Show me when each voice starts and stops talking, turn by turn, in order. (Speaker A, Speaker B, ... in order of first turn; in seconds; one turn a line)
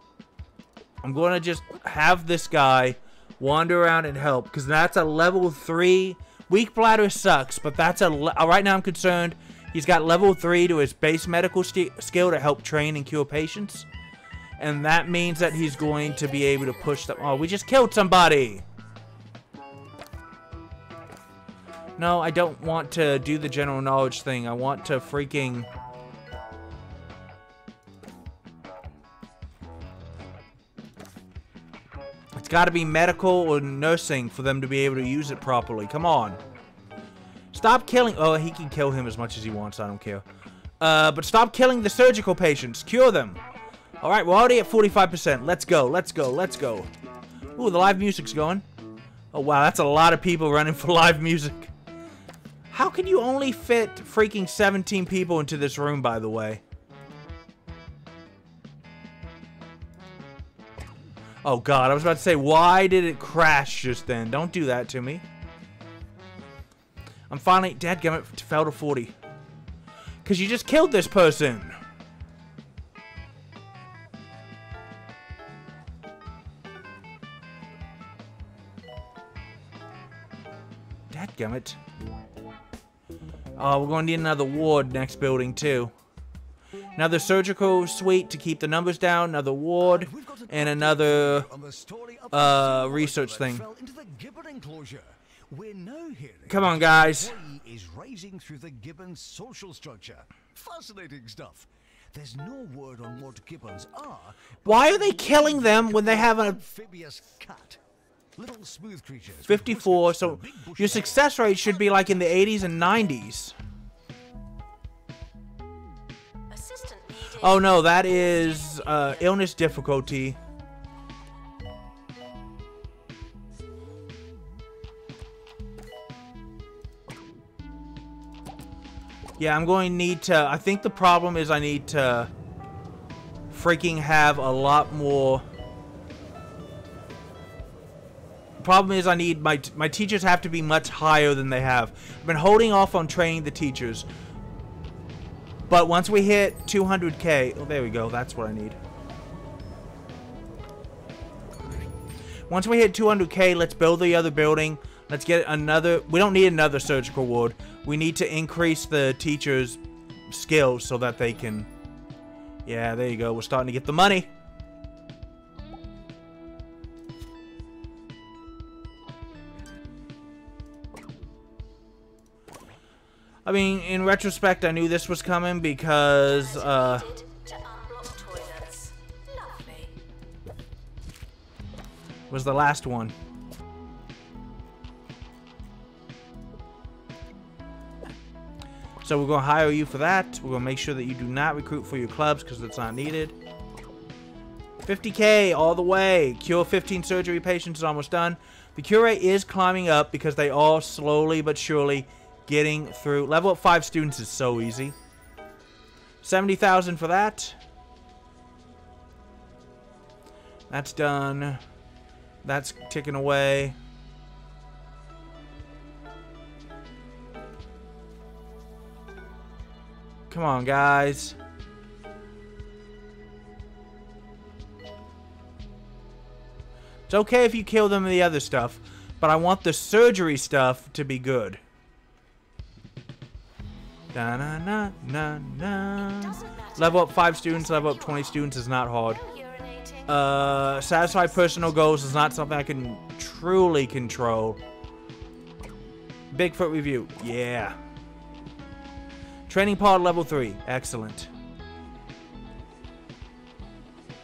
Speaker A: 1.0-13.9
Speaker A: 14.6-18.6
Speaker B: 15.4-17.6
Speaker A: 22.0-25.7
Speaker A: 32.4-36.4
Speaker A: 37.5-40.2
Speaker A: 40.8-43.4
Speaker A: 44.0-46.9
Speaker A: 47.6-48.6
Speaker A: 49.3-51.7
Speaker A: 52.7-56.6
Speaker A: 61.4-65.2
Speaker A: 67.3-69.1
Speaker A: 70.2-71.8
Speaker A: 81.1-81.8
Speaker A: 83.6-85.9
Speaker A: 87.0-91.5
Speaker C: 89.8-107.8
Speaker A: 92.3-93.7
Speaker A: 96.5-97.4
Speaker A: 104.6-106.6
Speaker C: 108.4-111.3
Speaker A: 109.5-113.5
Speaker B: 111.7-112.5
Speaker B: 116.5-119.5
Speaker A: 117.4-120.4
Speaker A: 129.4-132.3
Speaker A: 133.5-135.4
Speaker A: 138.6-144.1
Speaker A: 145.7-148.8
Speaker A: 152.5-161.7
Speaker A: 162.7-164.3
Speaker A: 173.4-177.1
Speaker B: 176.2-180.0
Speaker A: 182.3-183.1
Speaker A: 189.0-193.3
Speaker A: 194.8-205.0
Speaker A: 206.2-207.6
Speaker A: 210.7-211.6
Speaker A: 212.4-213.8
Speaker A: 220.3-221.4
Speaker A: 227.1-231.6
Speaker A: 234.1-239.2
Speaker B: 236.0-238.5
Speaker B: 239.1-241.7
Speaker A: 240.1-244.6
Speaker A: 246.3-247.8
Speaker A: 249.5-251.3